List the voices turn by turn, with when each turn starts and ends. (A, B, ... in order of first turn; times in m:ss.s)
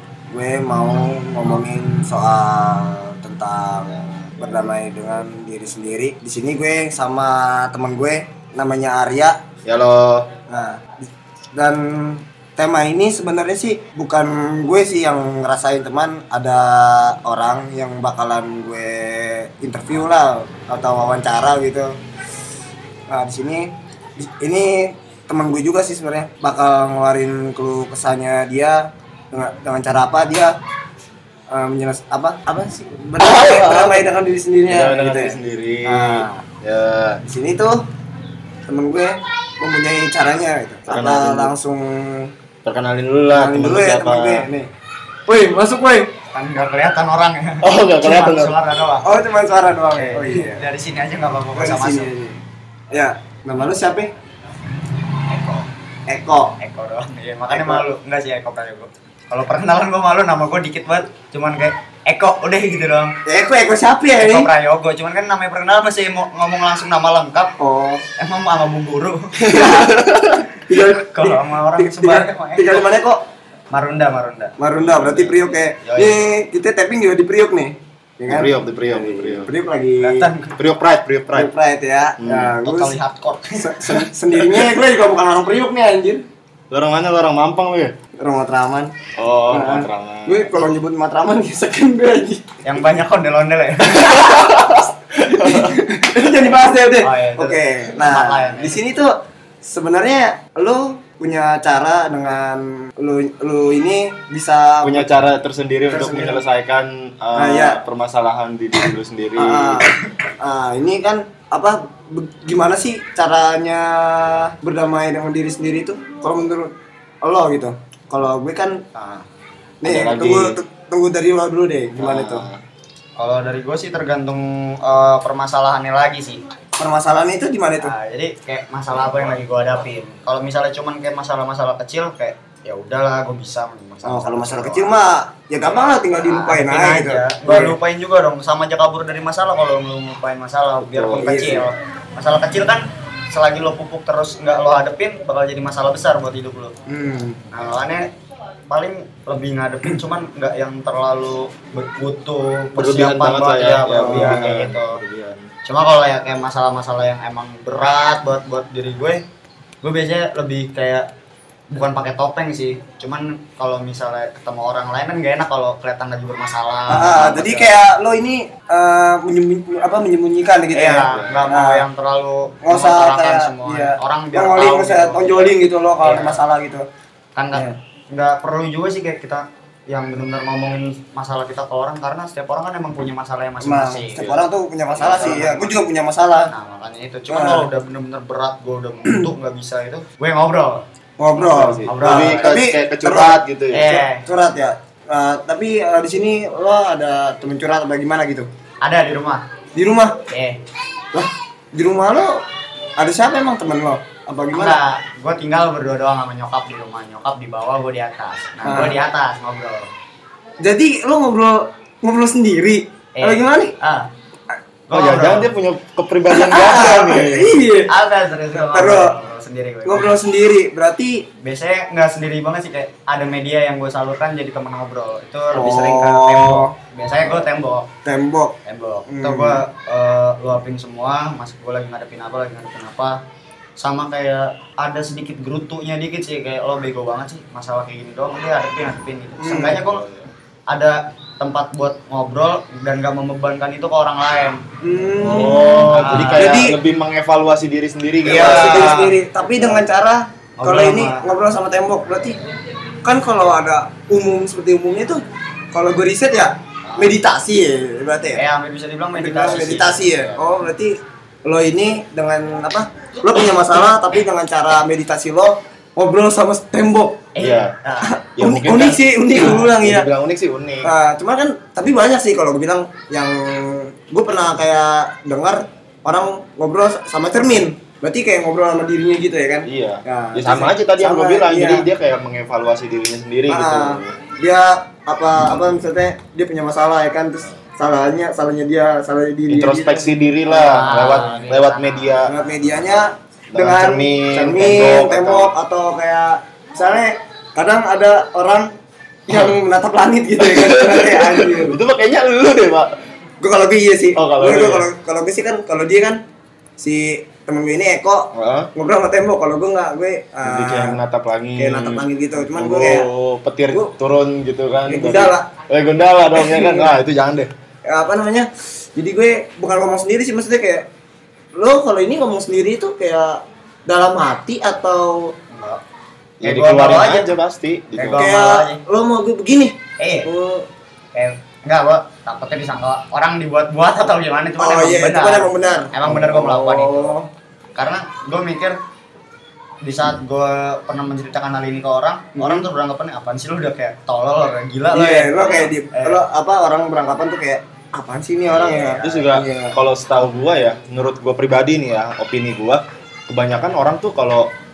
0:00.3-0:09.4 A
0:09.6-0:10.3 B
0:10.5-0:22.0 A
0:23.1-0:30.5 A
0:31.5-0:36.4 A
0:33.2-0:34.0 B
0:34.7-0:37.2 B
0:37.2-0:37.8 A
0:38.6-0:42.3 A
0:40.9-0:41.5 B
0:42.6-0:44.4 B
0:43.3-0:44.7 A
0:45.3-0:46.1 A
0:46.3-0:49.1 C
0:47.6-0:48.5 B
0:49.0-0:50.7 A
0:50.0-0:52.1 C
0:51.5-0:54.1 A
0:55.3-0:55.7 C
0:56.1-0:56.6 A
0:56.6-1:03.2 C
0:57.5-0:57.8 A
1:03.2-1:04.5 A
1:04.2-1:07.5 C
1:07.6-1:08.0 A
1:08.2-1:09.5 C
1:09.4-1:10.0 A
1:09.5-1:10.4 B
1:10.6-1:13.2 A
1:10.9-1:12.8 C
1:13.7-1:14.5 C
1:14.6-1:20.3 A
1:14.7-1:15.4 B
1:15.8-1:16.2 C
1:18.3-1:19.5 B
1:20.0-1:20.5 C
1:20.6-1:21.5 B
1:21.3-1:23.0 A
1:22.2-1:22.6 B
1:22.6-1:24.1 C
1:23.6-1:26.2 A
1:26.7-1:27.9 B
1:28.2-1:28.9 A
1:29.2-1:30.5 B
1:29.5-1:32.5 A
1:32.6-1:34.3 C
1:34.1-1:34.6 A
1:34.1-1:35.7 B
1:35.2-1:45.1 A
1:37.0-1:38.8 C
1:44.8-1:49.8 B
1:45.9-1:46.4 A
1:47.3-1:47.8 A
1:49.4-1:56.7 A
1:57.2-1:58.8 A
1:58.9-1:59.2 C
1:59.8-2:02.4 A
1:59.8-2:00.6 B
2:02.0-2:02.6 B
2:03.2-2:06.4 C
2:06.8-2:07.9 A
2:07.8-2:14.9 C
2:08.9-2:09.4 B
2:14.0-2:17.8 A
2:16.1-2:26.7 C
2:20.8-2:21.4 B
2:21.1-2:21.7 A
2:26.9-2:27.4 A
2:27.5-2:28.1 C
2:28.7-2:35.0 C
2:32.8-2:35.5 B
2:34.0-2:34.7 A
2:35.6-2:39.2 C
2:39.8-2:41.1 C
2:41.7-2:47.7 C
2:46.9-2:51.8 A
2:50.7-2:55.5 C
2:51.1-2:51.5 B
2:52.6-2:56.8 A
2:56.0-2:56.4 C
2:57.4-3:04.4 C
3:03.6-3:06.5 A
3:05.0-3:05.7 B
3:05.1-3:05.4 C
3:06.5-3:10.8 C
3:07.3-3:07.7 A
3:11.2-3:18.5 A
3:11.4-3:13.9 B
3:11.8-3:12.6 C
3:13.7-3:14.2 C
3:18.8-3:19.4 C
3:19.7-3:20.2 A
3:20.3-3:20.6 C
3:21.1-3:22.4 A
3:23.0-3:24.8 A
3:24.5-3:29.9 C
3:28.6-3:29.0 A
3:30.6-3:33.7 A
3:33.2-3:34.1 C
3:34.9-3:35.5 C
3:34.9-3:37.5 B
3:36.3-3:37.9 A
3:37.9-3:40.1 C
3:38.7-3:39.1 A
3:39.8-3:41.2 A
3:41.4-3:47.9 C
3:45.5-3:46.7 A
3:48.0-3:48.6 A
3:48.6-3:53.2 C
3:49.1-3:49.6 A
3:53.8-4:00.0 C
3:59.4-3:59.8 A
3:59.8-4:00.3 B
4:00.7-4:04.6 C
4:04.8-4:06.8 A
4:05.2-4:06.7 C
4:05.2-4:09.8 B
4:08.2-4:12.4 A
4:08.2-4:09.1 C
4:10.6-4:11.2 C
4:13.0-4:15.2 A
4:15.7-4:18.4 A
4:16.8-4:17.1 C
4:18.4-4:20.1 C
4:19.1-4:27.2 A
4:19.5-4:20.4 B
4:27.3-4:28.2 C
4:27.4-4:27.7 B
4:28.0-4:30.1 A
4:28.4-4:30.9 B
4:30.8-4:41.9 A
4:39.6-4:44.2 B
4:43.5-4:50.1 A
4:49.5-4:52.3 B
4:50.5-4:52.2 C
4:50.6-4:51.2 A
4:52.2-4:58.7 A
4:53.5-4:55.5 B
4:59.3-5:01.8 A
5:00.4-5:02.9 B
5:03.4-5:06.2 A
5:04.2-5:04.9 B
5:06.8-5:11.0 A
5:08.3-5:08.7 B
5:10.4-5:17.5 B
5:11.6-5:13.1 A
5:14.9-5:15.5 A
5:16.3-5:16.9 A
5:17.8-5:20.9 A
5:21.6-5:25.3 A
5:25.5-5:25.8 C
5:26.4-5:28.3 B
5:26.4-5:27.3 C
5:28.0-5:28.8 C
5:28.2-5:30.7 A
5:30.0-5:30.3 C
5:31.1-5:37.1 C
5:34.6-5:37.3 A
5:37.8-5:38.8 C
5:39.8-5:46.2 C
5:42.4-5:42.7 A
5:44.9-5:49.8 A
5:48.5-5:49.2 C
5:49.0-5:54.5 B